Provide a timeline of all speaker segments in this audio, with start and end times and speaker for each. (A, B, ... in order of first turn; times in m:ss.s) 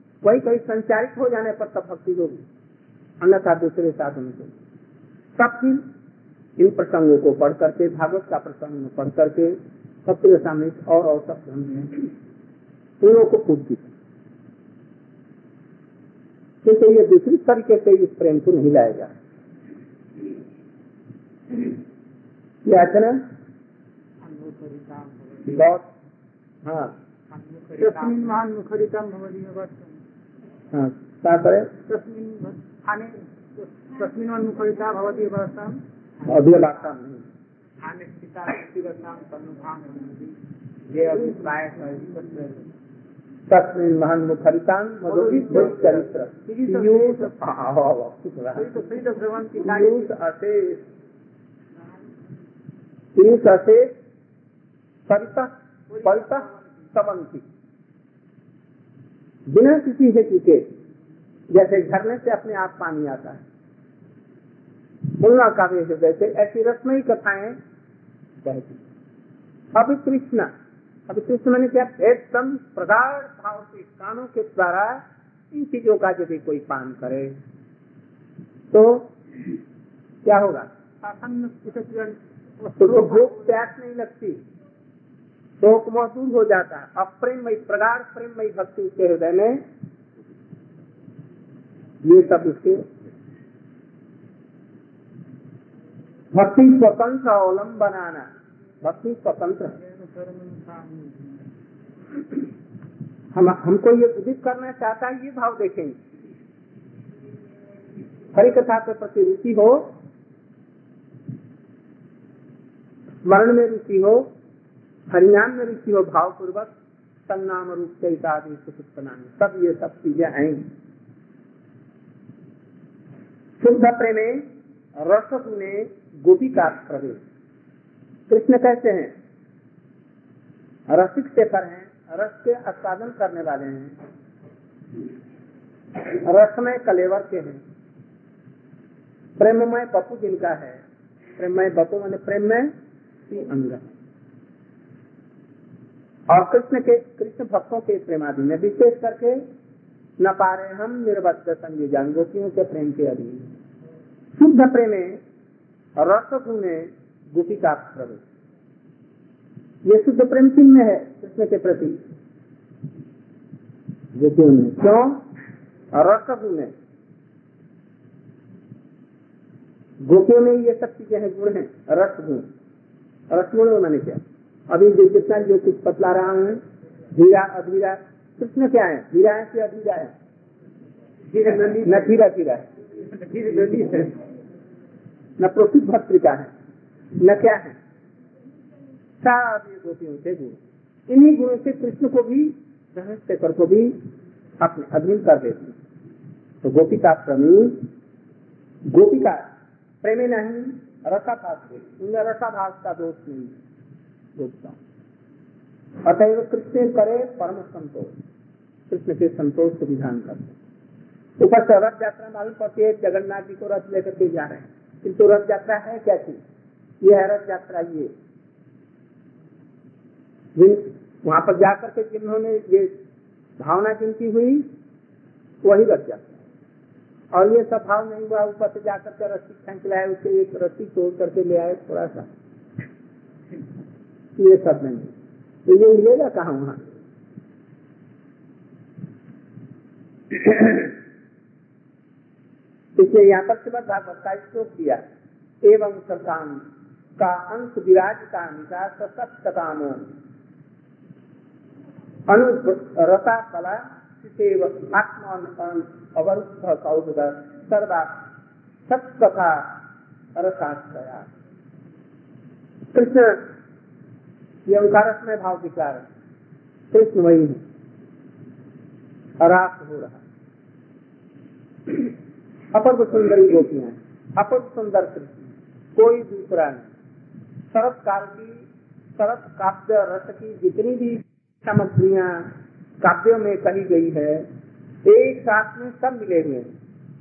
0:00.2-0:02.4 A
0:03.2-0:04.5 A
0:05.4-0:05.8 A
0:06.6-0:12.1 A
0:13.0-0:13.9 A
0:16.6-0:19.1 A
0:22.6-0:23.2 A
0:24.2-0:25.7 B
0:25.5-0:25.9 A
0:26.6-0:27.0 A
0:27.3-0:29.9 B
0:30.7-0:31.7 A
0:31.9-0:35.8 B
0:36.3-0:37.2 A
0:37.8-0:40.3 B
0:40.9-0:42.6 B
0:43.5-0:48.7 A
0:45.1-0:47.3 B
0:48.6-0:50.1 B
0:49.6-0:50.8 A
0:53.2-0:53.9 A
0:55.1-0:55.5 A
0:55.9-0:56.5 B
0:56.0-0:57.4 A
0:59.5-1:00.7 A
1:01.5-1:03.4 A
1:05.2-1:07.6 A
1:08.4-1:08.8 A
1:09.7-1:10.5 A
1:11.1-1:17.4 A
1:18.7-1:19.1 A
1:20.2-1:20.7 A
1:21.0-1:22.2 B
1:22.8-1:24.4 A
1:22.8-1:23.3 B
1:25.6-1:29.6 A
1:32.0-1:32.8 A
1:36.3-1:38.3 A
1:38.8-1:39.8 A
1:39.9-1:41.4 B
1:43.3-1:46.0 A
1:48.4-1:49.9 A
1:53.2-1:54.3 A
1:55.1-1:56.7 A
1:57.3-2:00.7 A
2:03.6-2:07.2 A
2:08.3-2:09.1 A
2:10.9-2:14.0 A
2:16.0-2:17.6 A
2:19.4-2:20.8 A
2:21.4-2:22.7 A
2:23.3-2:23.8 A
2:26.3-2:29.4 A
2:30.2-2:33.5 A
2:34.4-2:35.2 A
2:36.0-2:38.2 A
2:39.8-2:42.0 A
2:44.2-2:45.2 A
2:45.9-2:46.7 A
2:50.0-2:52.5 A
2:53.3-2:56.6 A
2:57.1-3:00.1 A
3:01.3-3:02.1 B
3:01.8-3:02.7 A
3:03.1-3:04.2 B
3:05.4-3:06.5 A
3:07.2-3:07.8 A
3:09.2-3:14.0 A
3:14.6-3:15.8 A
3:16.6-3:17.9 A
3:18.9-3:19.5 A
3:20.0-3:23.6 A
3:24.4-3:24.8 A
3:26.0-3:28.1 A
3:28.9-3:30.6 A
3:31.4-3:36.4 A
3:37.0-3:38.1 A
3:40.6-3:42.9 A
3:43.6-3:44.7 A
3:45.6-3:46.4 A
3:47.3-3:52.3 A
3:54.4-3:55.1 A
3:55.7-3:56.8 A
4:00.3-4:00.9 A
4:03.0-4:05.0 A
4:05.6-4:06.6 A
4:07.2-4:10.1 A
4:12.3-4:18.2 A
4:18.9-4:19.8 A
4:20.4-4:21.3 A
4:22.9-4:23.5 A
4:24.7-4:26.0 A
4:26.9-4:27.6 A
4:29.4-4:30.2 A
4:32.7-4:36.9 A
4:37.7-4:38.6 A
4:39.2-4:44.5 A
4:45.0-4:46.7 A